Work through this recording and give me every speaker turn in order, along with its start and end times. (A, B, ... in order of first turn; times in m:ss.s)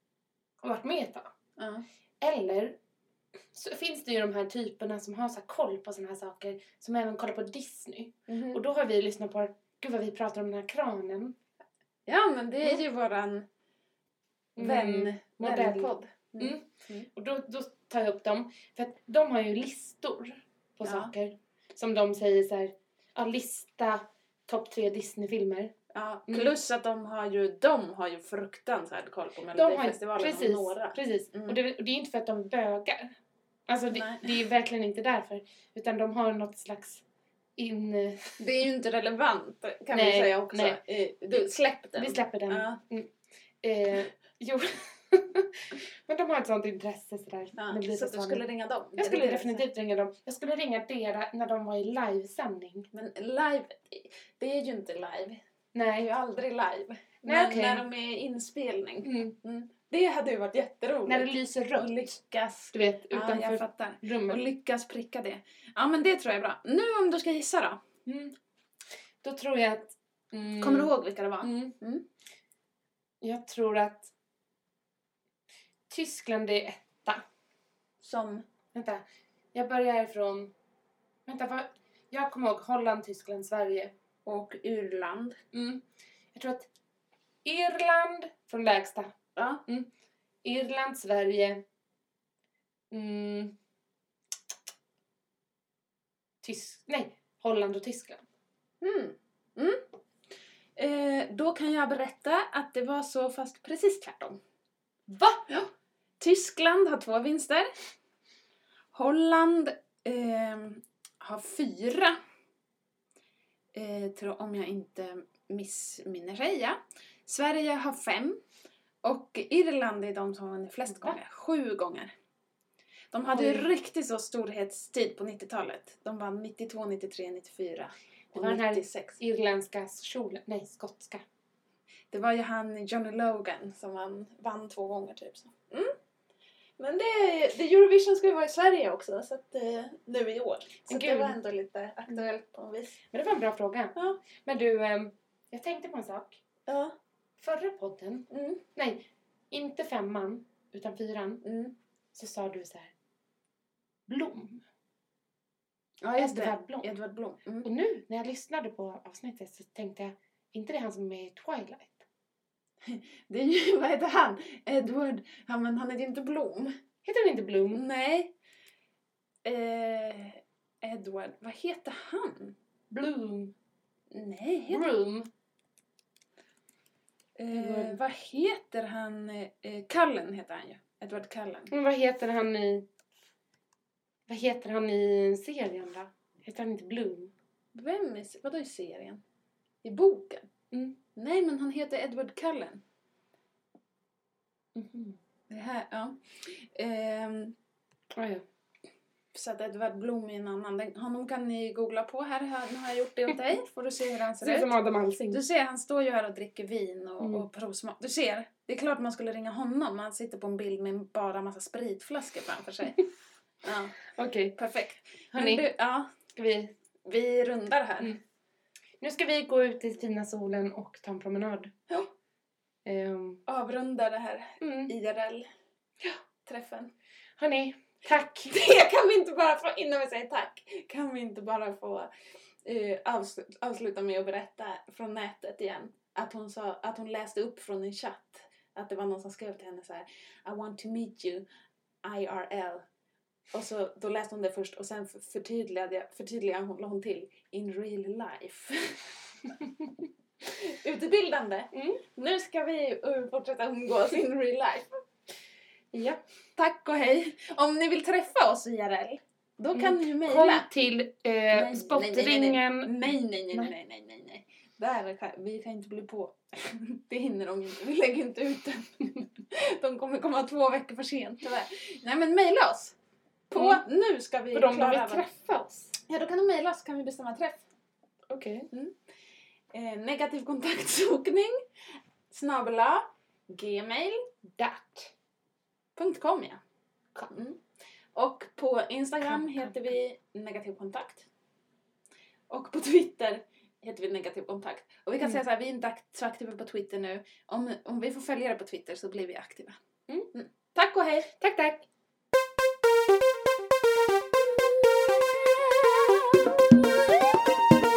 0:00.6-0:01.3 A
0:01.6-0:01.8 B
0:02.2-0:02.8 A
0:03.5-0:11.4 A
0:08.3-0:08.6 B
0:12.1-0:13.5 B
0:14.6-0:25.7 A
0:14.6-0:17.1 B
0:20.8-0:21.1 B
0:25.9-0:31.6 B
0:29.5-0:33.1 A
0:33.7-0:37.0 A
0:33.9-0:34.3 B
0:37.6-0:38.4 A
0:38.4-0:42.8 B
0:39.9-0:40.8 A
0:42.0-0:48.4 A
0:47.6-0:49.6 B
0:49.0-0:52.9 A
0:52.9-0:55.4 B
0:55.7-0:56.1 A
0:56.0-1:07.8 B
0:57.2-0:57.8 A
0:59.0-0:59.4 A
1:01.0-1:02.1 A
1:02.7-1:04.4 A
1:08.0-1:08.3 A
1:09.2-1:11.7 A
1:10.5-1:12.0 B
1:13.2-1:14.1 A
1:15.9-1:17.2 A
1:18.0-1:18.4 B
1:18.7-1:20.5 A
1:21.2-1:23.9 A
1:24.2-1:25.4 B
1:25.5-1:25.8 A
1:26.3-1:26.7 A
1:27.4-1:29.9 A
1:29.4-1:29.6 B
1:30.4-1:31.6 A
1:32.9-1:33.6 A
1:36.4-1:38.2 A
1:38.8-1:39.8 B
1:40.8-1:44.4 B
1:45.1-1:45.5 A
1:46.2-1:47.7 B
1:48.9-1:52.2 B
1:53.7-1:58.4 B
1:59.0-2:02.1 B
2:03.1-2:09.2 B
2:03.3-2:03.7 A
2:08.3-2:11.2 A
2:12.1-2:15.9 B
2:16.8-2:23.0 B
2:20.8-2:21.4 A
2:23.1-2:26.4 A
2:24.0-2:24.2 B
2:26.7-2:26.9 B
2:27.4-2:31.4 A
2:28.3-2:28.6 B
2:31.4-2:31.7 B
2:32.1-2:32.9 A
2:34.1-2:34.6 A
2:36.0-2:37.7 B
2:36.2-2:36.9 A
2:37.6-2:42.0 A
2:42.8-2:46.7 B
2:47.0-2:47.8 A
2:47.7-2:48.3 B
2:49.4-2:52.5 B
2:52.9-2:53.5 A
2:54.1-2:54.9 B
2:54.7-2:55.3 A
2:57.4-3:01.7 B
2:57.5-2:58.0 A
3:01.7-3:02.8 A
3:04.3-3:07.3 A
3:07.7-3:09.2 B
3:09.8-3:10.5 B
3:10.7-3:11.0 A
3:11.2-3:12.8 B
3:14.7-3:15.2 A
3:15.5-3:17.6 B
3:18.1-3:18.4 A
3:19.3-3:33.1 B
3:24.4-3:25.4 A
3:27.2-3:27.5 A
3:33.6-3:34.0 B
3:34.1-3:34.6 A
3:34.6-3:36.1 B
3:35.3-3:35.7 A
3:36.3-3:36.7 A
3:37.0-3:38.2 B
3:39.0-3:41.7 A
3:42.8-3:43.4 A
3:43.4-3:45.5 B
3:44.6-3:44.9 A
3:46.0-3:46.9 B
3:47.4-3:48.5 A
3:48.5-3:52.1 B
3:52.6-4:01.4 B
4:02.0-4:02.8 B
4:03.5-4:09.1 B
4:10.4-4:15.0 B
4:11.7-4:12.0 A
4:15.9-4:16.2 A
4:16.6-4:20.7 B
4:19.7-4:22.9 A
4:21.5-4:33.0 B
4:33.5-4:35.2 B
4:33.6-4:33.8 A
4:34.5-4:35.9 A
4:36.0-4:37.6 B
4:38.3-4:38.7 A
4:39.7-4:41.6 B
4:42.3-4:44.3 B
4:44.6-4:45.1 A
4:46.0-4:46.6 B
4:47.3-4:47.6 B
4:48.2-4:51.3 B
4:49.2-4:49.8 A
4:52.5-4:59.8 B
5:00.3-5:01.3 B
5:01.4-5:01.9 A